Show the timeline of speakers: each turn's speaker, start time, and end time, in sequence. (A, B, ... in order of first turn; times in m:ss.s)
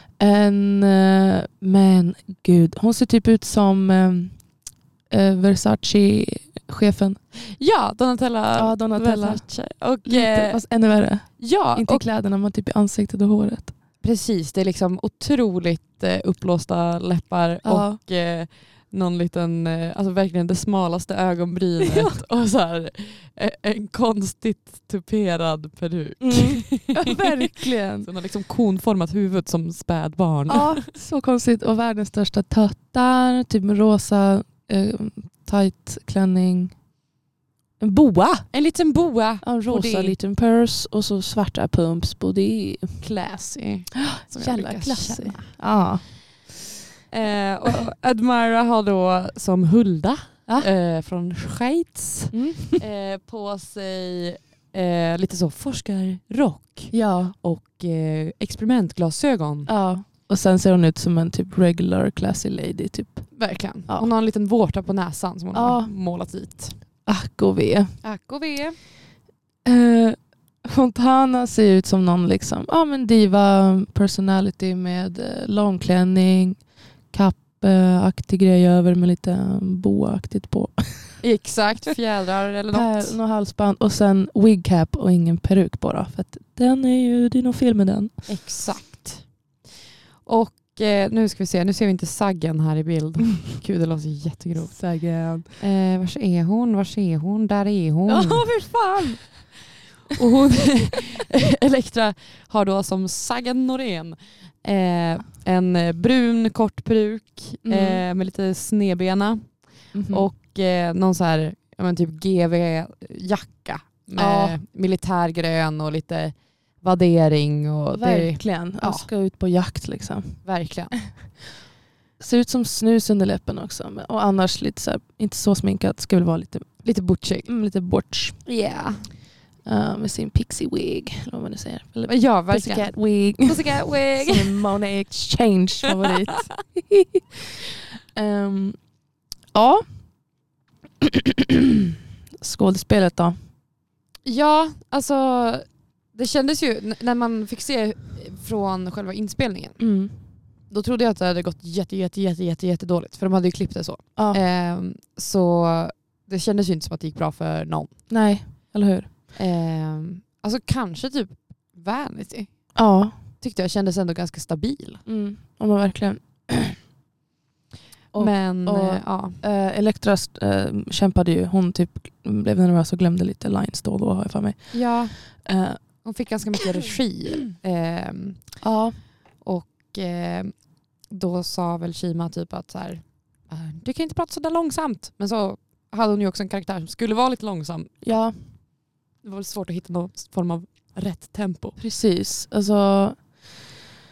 0:00.2-0:04.4 A
0:05.1-0:07.2 A
0:07.4-0:10.6 B
0:08.6-0:09.5 A
0:10.0-0:13.7 A
0:11.4-0:12.0 B
0:14.0-0:30.8 B
0:17.6-0:18.0 A
0:21.8-0:22.2 A
0:26.2-0:28.1 A
0:30.5-0:36.8 A
0:37.8-0:38.5 A
0:38.5-0:40.2 B
0:39.4-0:43.0 A
0:43.0-0:45.6 B
0:44.0-0:46.1 A
0:47.1-0:59.7 B
0:52.3-0:52.8 A
0:56.9-0:57.4 A
0:59.7-1:03.3 A
1:03.3-1:06.8 B
1:05.5-1:05.9 A
1:07.1-1:08.0 A
1:08.0-1:08.8 B
1:09.6-1:16.6 A
1:17.1-1:21.2 A
1:21.2-1:23.2 B
1:22.7-1:28.2 A
1:28.3-1:29.3 B
1:30.2-1:34.8 B
1:34.7-1:35.5 A
1:35.6-1:38.5 B
1:38.1-1:39.4 A
1:40.2-1:59.1 B
1:47.6-1:48.0 A
1:49.9-1:50.3 A
1:54.2-1:54.6 A
1:57.9-2:00.4 A
2:00.4-2:01.0 B
2:02.2-2:06.8 A
2:06.8-2:07.5 B
2:07.5-2:08.4 A
2:08.5-2:09.1 B
2:09.7-2:18.8 A
2:12.1-2:14.6 B
2:19.5-2:19.8 A
2:21.0-2:23.4 A
2:24.2-2:29.8 B
2:29.8-2:30.1 A
2:30.7-2:38.0 B
2:34.2-2:34.4 A
2:38.1-2:39.1 A
2:39.4-2:42.6 B
2:42.8-2:43.2 A
2:43.4-2:45.0 B
2:45.1-2:46.8 A
2:48.1-2:55.8 A
2:48.2-2:49.4 B
2:54.7-2:55.2 B
2:56.0-2:58.6 B
2:58.6-2:59.0 A
2:59.4-3:00.6 B
3:01.1-3:08.0 B
3:08.0-3:08.4 A
3:09.2-3:11.8 B
3:11.8-3:13.2 A